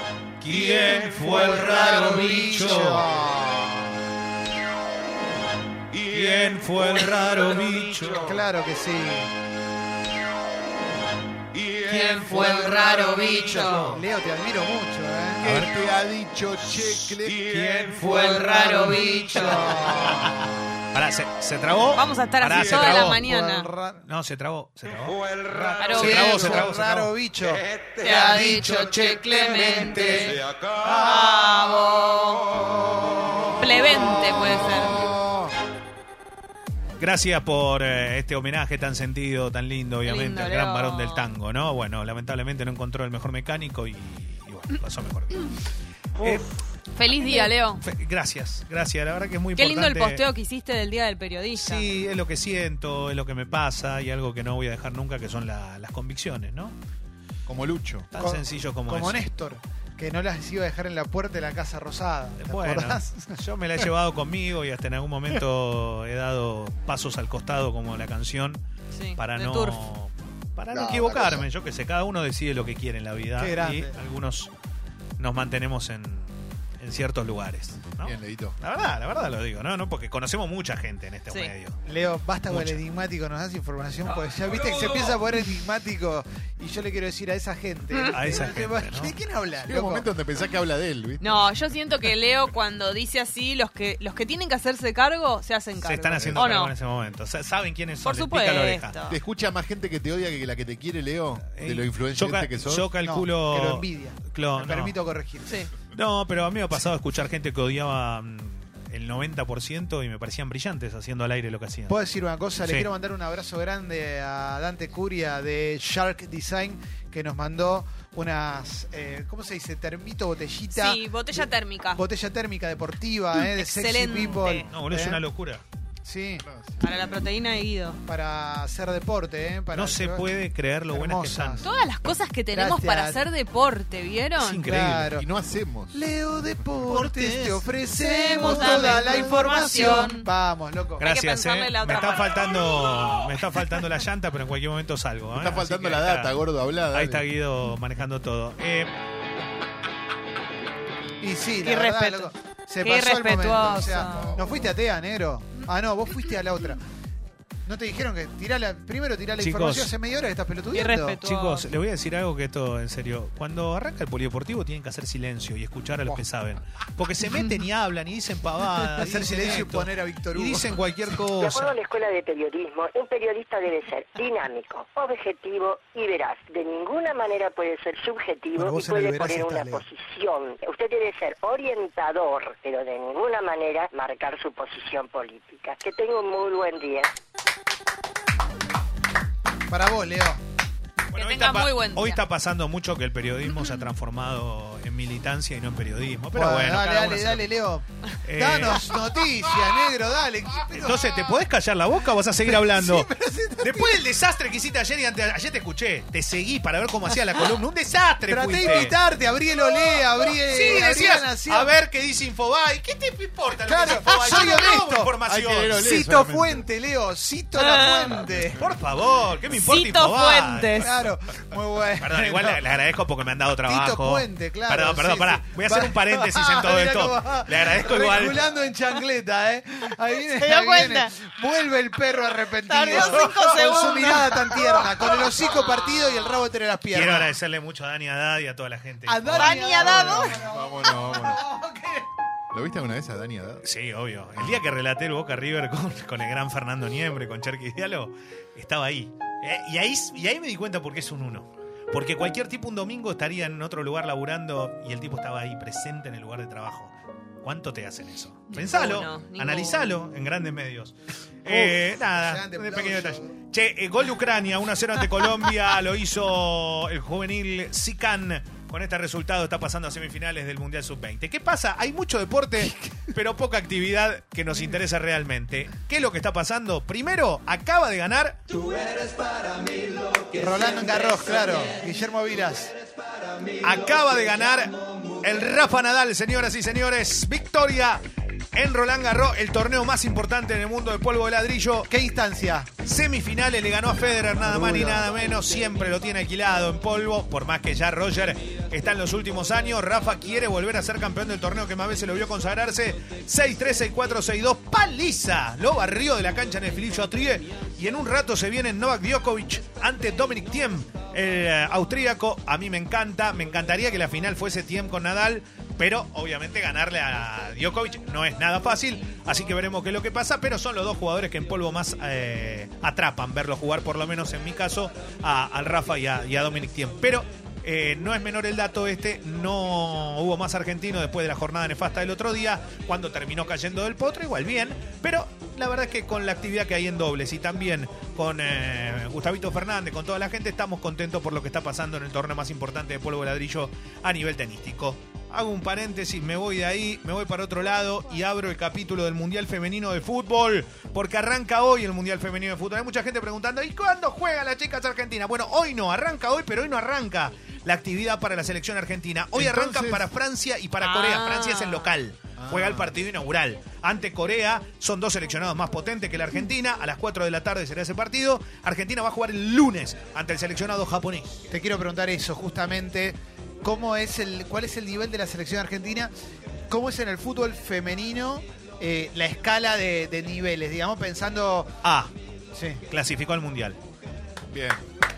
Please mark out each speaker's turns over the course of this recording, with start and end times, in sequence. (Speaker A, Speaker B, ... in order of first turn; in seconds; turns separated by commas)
Speaker A: 0.4-3.1, Speaker B: 1.2-3.9, Speaker C: 2.1-2.6, Speaker A: 6.0-8.4, Speaker B: 8.2-9.3, Speaker A: 11.9-14.0, Speaker C: 11.9-13.9, Speaker B: 13.3-15.6, Speaker A: 15.4-15.7, Speaker D: 15.4-17.5, Speaker A: 16.7-20.3, Speaker C: 18.1-19.7, Speaker B: 18.3-20.5, Speaker A: 20.9-23.3, Speaker C: 21.9-23.7, Speaker B: 22.7-24.0, Speaker A: 24.0-27.1, Speaker C: 25.8-26.7, Speaker B: 26.0-30.3, Speaker C: 28.0-30.4, Speaker C: 31.0-32.5, Speaker C: 33.6-35.0, Speaker B: 34.0-35.5, Speaker A: 37.0-45.5, Speaker C: 40.0-41.3, Speaker A: 46.1-46.6, Speaker C: 46.9-47.8, Speaker A: 47.4-50.3, Speaker C: 49.5-51.9, Speaker A: 51.6-56.8, Speaker D: 57.5-58.1, Speaker A: 58.1-59.2, Speaker B: 58.2-63.4, Speaker A: 62.4-68.6, Speaker C: 68.9-69.9, Speaker A: 69.2-74.5, Speaker D: 70.7-71.4, Speaker B: 73.4-74.0, Speaker A: 75.2-81.8, Speaker D: 78.0-78.6, Speaker B: 81.9-90.1, Speaker A: 82.5-82.8, Speaker C: 87.9-88.4, Speaker A: 88.1-89.1, Speaker D: 89.6-91.4, Speaker C: 91.2-96.7, Speaker A: 95.8-99.0, Speaker C: 98.0-99.1, Speaker D: 99.1-102.9, Speaker A: 101.5-105.0, Speaker B: 103.0-105.6, Speaker C: 105.5-105.7, Speaker A: 105.9-112.0, Speaker B: 111.9-121.4, Speaker A: 112.6-112.9, Speaker C: 120.7-122.0, Speaker B: 121.9-125.2, Speaker C: 123.3-124.7, Speaker A: 124.4-125.6, Speaker B: 126.0-126.5, Speaker D: 126.4-127.0, Speaker C: 126.8-128.0, Speaker B: 128.1-130.3, Speaker A: 129.7-131.7, Speaker B: 130.9-131.7, Speaker C: 131.6-134.7, Speaker B: 132.5-133.2, Speaker A: 134.4-135.1, Speaker B: 134.7-135.3, Speaker D: 135.1-136.0, Speaker B: 135.9-141.1, Speaker A: 136.8-137.7, Speaker C: 137.9-140.3, Speaker A: 138.4-139.1, Speaker C: 141.0-142.4, Speaker A: 141.0-146.4, Speaker D: 145.3-147.3, Speaker A: 146.9-148.9, Speaker B: 151.2-156.8, Speaker C: 151.6-154.4, Speaker B: 157.7-161.2, Speaker A: 159.4-159.9, Speaker C: 160.7-161.7, Speaker A: 161.2-171.8, Speaker B: 168.9-170.8, Speaker E: 171.4-187.1, Speaker B: 178.6-179.8, Speaker B: 189.7-190.4, Speaker C: 191.1-192.2, Speaker A: 191.1-197.5, Speaker B: 196.3-201.3, Speaker A: 198.2-198.9, Speaker A: 200.8-208.9, Speaker B: 202.4-204.1, Speaker B: 208.3-211.7, Speaker A: 209.6-215.8, Speaker B: 213.6-215.2, Speaker D: 215.3-216.7, Speaker B: 215.7-218.6, Speaker C: 217.6-218.2, Speaker A: 218.6-220.9, Speaker C: 219.5-220.9, Speaker B: 220.8-222.6, Speaker A: 222.0-228.4, Speaker B: 223.7-237.3, Speaker C: 230.2-231.2, Speaker C: 232.6-234.9, Speaker A: 236.9-240.2, Speaker B: 239.1-242.1, Speaker C: 239.3-240.4, Speaker D: 240.3-241.4, Speaker D: 242.5-243.7, Speaker A: 243.6-278.7, Speaker D: 244.4-244.6, Speaker C: 258.5-259.9, Speaker B: 261.5-263.3, Speaker B: 280.3-282.7, Speaker A: 283.6-288.0, Speaker A: 288.5-291.9, Speaker B: 291.9-292.7, Speaker A: 292.8-371.4, Speaker B: 294.4-295.1, Speaker D: 359.3-360.1, Speaker C: 360.8-361.9, Speaker D: 362.4-362.9, Speaker B: 371.5-376.1, Speaker B: 376.7-381.7, Speaker A: 381.8-382.1, Speaker B: 382.5-382.8, Speaker A: 382.9-383.8, Speaker D: 384.5-384.8